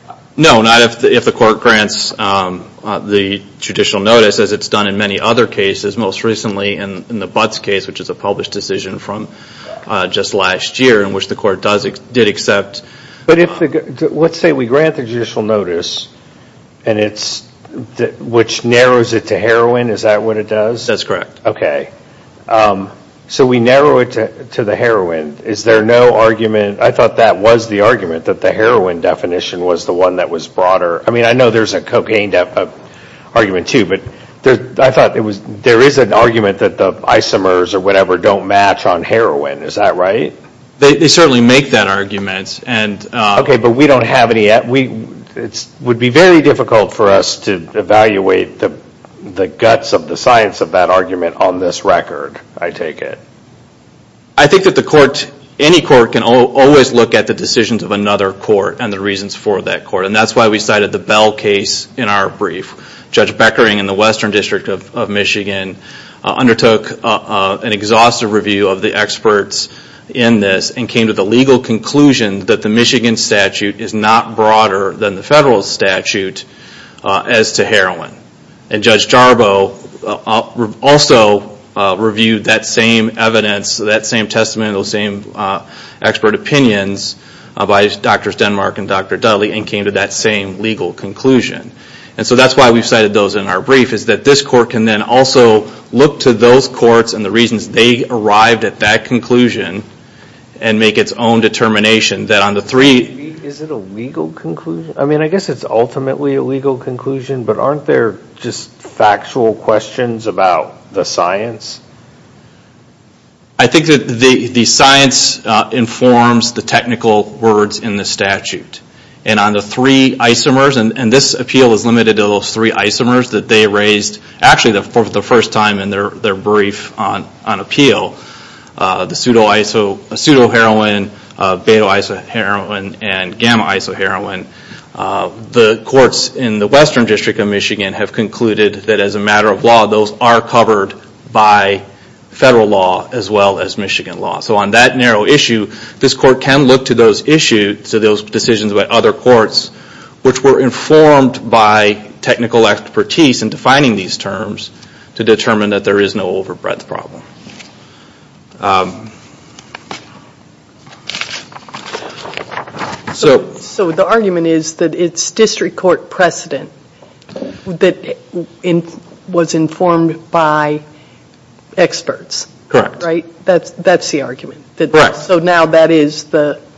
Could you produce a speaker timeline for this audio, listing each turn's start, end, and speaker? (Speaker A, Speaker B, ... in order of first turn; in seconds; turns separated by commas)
Speaker A: 0.4-9.3, Speaker A: 9.8-12.8, Speaker B: 13.3-16.1, Speaker B: 16.8-20.9, Speaker A: 20.9-21.4, Speaker B: 21.4-21.9, Speaker B: 22.5-32.7, Speaker B: 33.3-40.4, Speaker A: 40.8-43.5, Speaker B: 43.4-53.2, Speaker A: 54.4-76.4, Speaker A: 77.0-78.2, Speaker A: 78.7-99.8, Speaker A: 100.6-103.1, Speaker B: 102.8-111.8, Speaker A: 113.6-128.2, Speaker A: 128.8-149.7, Speaker A: 150.2-157.2, Speaker A: 158.6-159.1, Speaker A: 163.1-163.5, Speaker C: 163.2-166.7, Speaker C: 167.6-170.8, Speaker C: 171.8-176.6, Speaker A: 172.7-173.0, Speaker A: 174.9-175.2